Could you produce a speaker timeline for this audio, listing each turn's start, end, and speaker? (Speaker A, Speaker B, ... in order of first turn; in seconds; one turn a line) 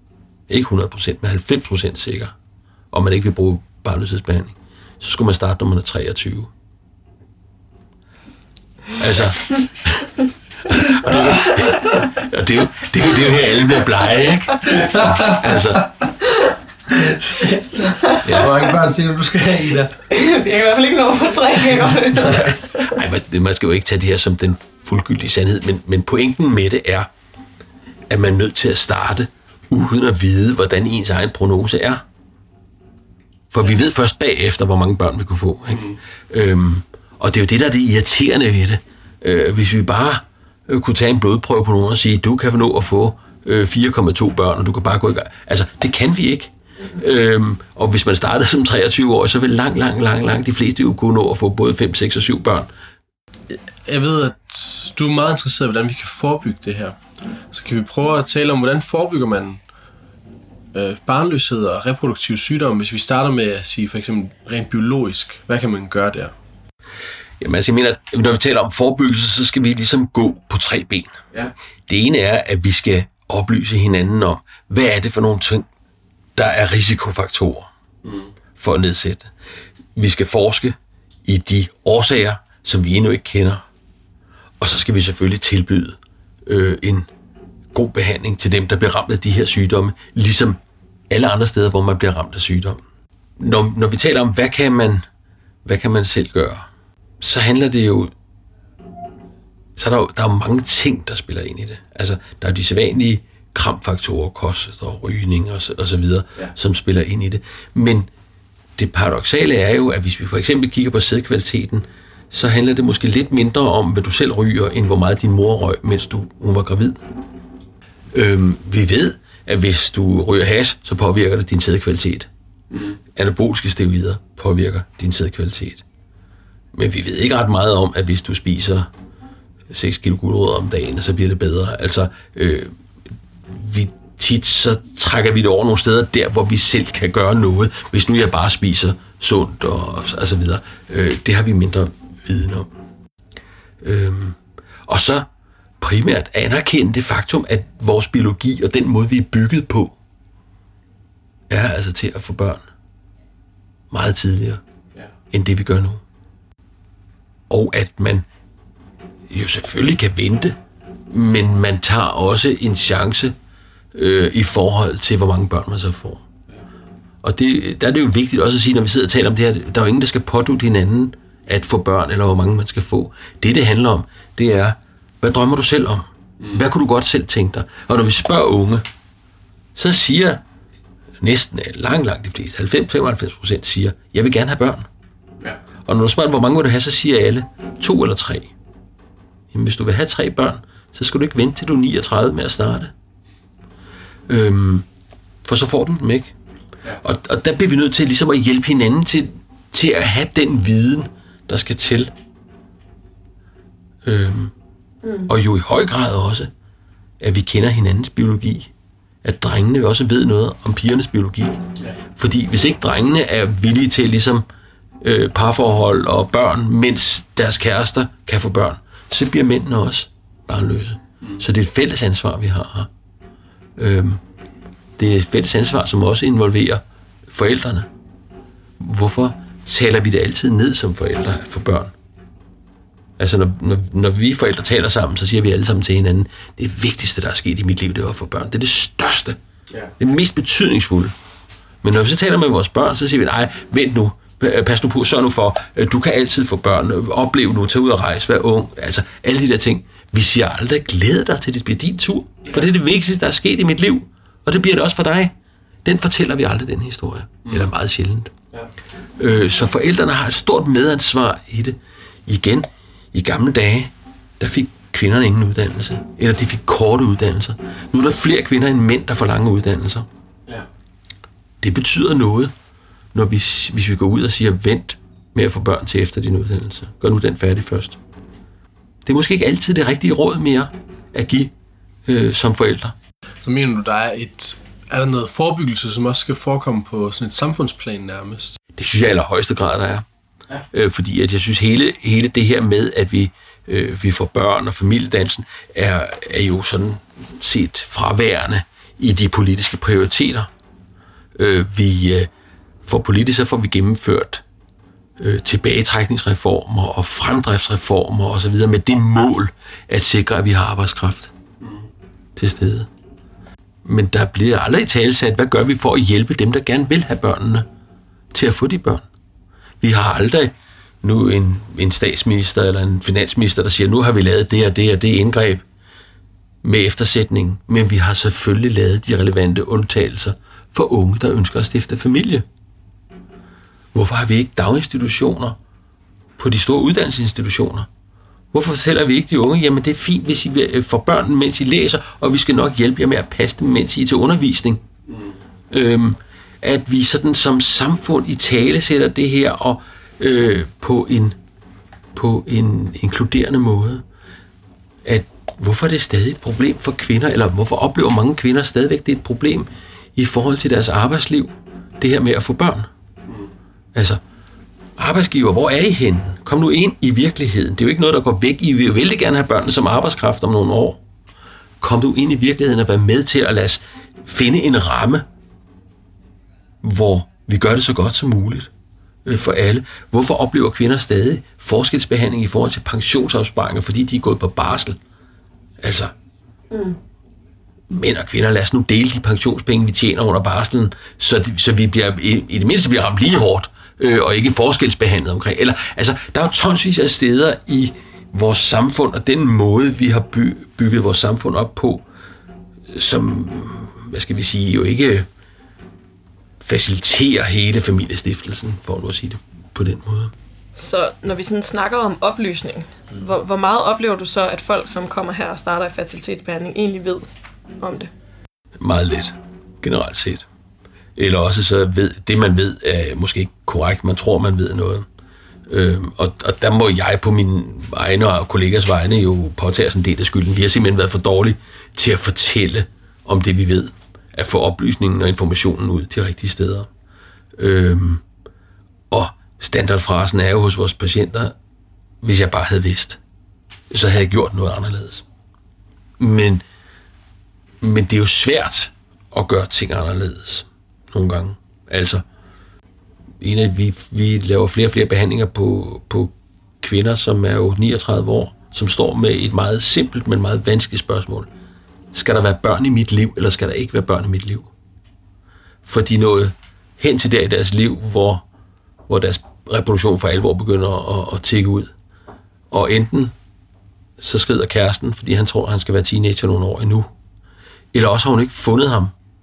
Speaker A: 0.5-2.3
Speaker A: 2.9-6.5
Speaker A: 9.0-15.9
Speaker B: 11.1-11.6
Speaker B: 14.6-15.9
Speaker B: 16.9-19.9
Speaker C: 17.8-18.6
Speaker A: 18.2-18.6
Speaker C: 20.1-22.8
Speaker B: 22.2-22.5
Speaker A: 22.8-27.1
Speaker A: 28.1-32.0
Speaker A: 33.5-52.7
Speaker B: 53.8-57.0
Speaker B: 57.5-59.6
Speaker B: 60.7-66.3
Speaker A: 67.4-71.1
Speaker A: 71.9-75.7
Speaker A: 76.4-77.7
Speaker B: 78.0-78.3
Speaker A: 78.6-79.3
Speaker A: 80.0-83.6
Speaker A: 84.6-87.1
Speaker A: 87.7-90.6
Speaker A: 91.1-92.8
Speaker A: 93.4-95.0
Speaker A: 95.7-96.7
Speaker A: 97.2-98.1
Speaker A: 99.8-108.1
Speaker A: 108.8-117.0
Speaker A: 118.1-122.3
Speaker A: 123.2-125.8
Speaker A: 126.7-128.9
Speaker A: 129.7-132.7
Speaker A: 133.5-142.7
Speaker A: 143.8-145.3
Speaker A: 145.8-150.0
Speaker A: 151.5-152.7
Speaker A: 153.9-154.6
Speaker A: 155.3-156.0
Speaker A: 157.5-158.3
Speaker A: 159.3-160.6
Speaker A: 161.1-163.3
Speaker A: 163.9-166.2
Speaker A: 167.2-178.8
Speaker A: 179.8-180.4
Speaker A: 181.2-184.9
Speaker A: 185.8-188.5
Speaker A: 189.5-192.9
Speaker A: 194.3-194.8
Speaker A: 195.4-196.3
Speaker A: 197.0-202.1
Speaker A: 204.1-204.5
Speaker C: 205.0-205.3
Speaker A: 205.2-206.5
Speaker A: 207.2-208.7
Speaker A: 209.2-211.6
Speaker A: 212.1-214.5
Speaker A: 215.0-222.9
Speaker A: 223.8-224.2
Speaker A: 225.0-227.9
Speaker A: 228.8-231.9
Speaker A: 233.2-239.4
Speaker A: 240.0-241.1
Speaker A: 241.8-255.3
Speaker A: 255.8-258.3
Speaker A: 259.2-270.1
Speaker A: 271.6-272.5
Speaker A: 273.1-278.0
Speaker A: 279.1-281.5
Speaker A: 282.1-282.9
Speaker B: 283.4-288.6
Speaker A: 288.8-290.1
Speaker A: 290.7-300.5
Speaker A: 301.4-302.3
Speaker A: 302.8-304.4
Speaker A: 305.2-311.3
Speaker A: 312.4-312.9
Speaker A: 313.8-317.7
Speaker A: 318.3-319.1
Speaker A: 319.8-325.6
Speaker A: 326.6-332.4
Speaker A: 333.9-335.6
Speaker A: 336.4-337.9
Speaker A: 338.5-344.8
Speaker A: 345.7-351.4
Speaker A: 352.1-354.0
Speaker A: 355.1-362.9
Speaker A: 363.9-364.2
Speaker A: 365.0-371.0
Speaker A: 371.8-375.2
Speaker A: 376.8-378.7
Speaker A: 379.2-385.0
Speaker A: 385.8-386.1
Speaker C: 386.7-387.0
Speaker A: 387.9-402.1
Speaker A: 402.9-405.3
Speaker A: 406.6-410.3
Speaker C: 410.8-417.2
Speaker C: 417.8-418.1
Speaker A: 418.8-420.5
Speaker A: 421.2-425.1
Speaker A: 425.7-436.9
Speaker A: 437.6-438.2
Speaker A: 439.1-441.6
Speaker A: 442.2-443.2
Speaker A: 443.9-445.2
Speaker A: 446.2-446.6
Speaker A: 447.8-452.2
Speaker A: 453.4-461.5
Speaker A: 462.1-464.7
Speaker A: 465.8-468.5
Speaker A: 469.1-471.9
Speaker A: 472.7-473.3
Speaker A: 474.2-477.1
Speaker A: 477.9-479.1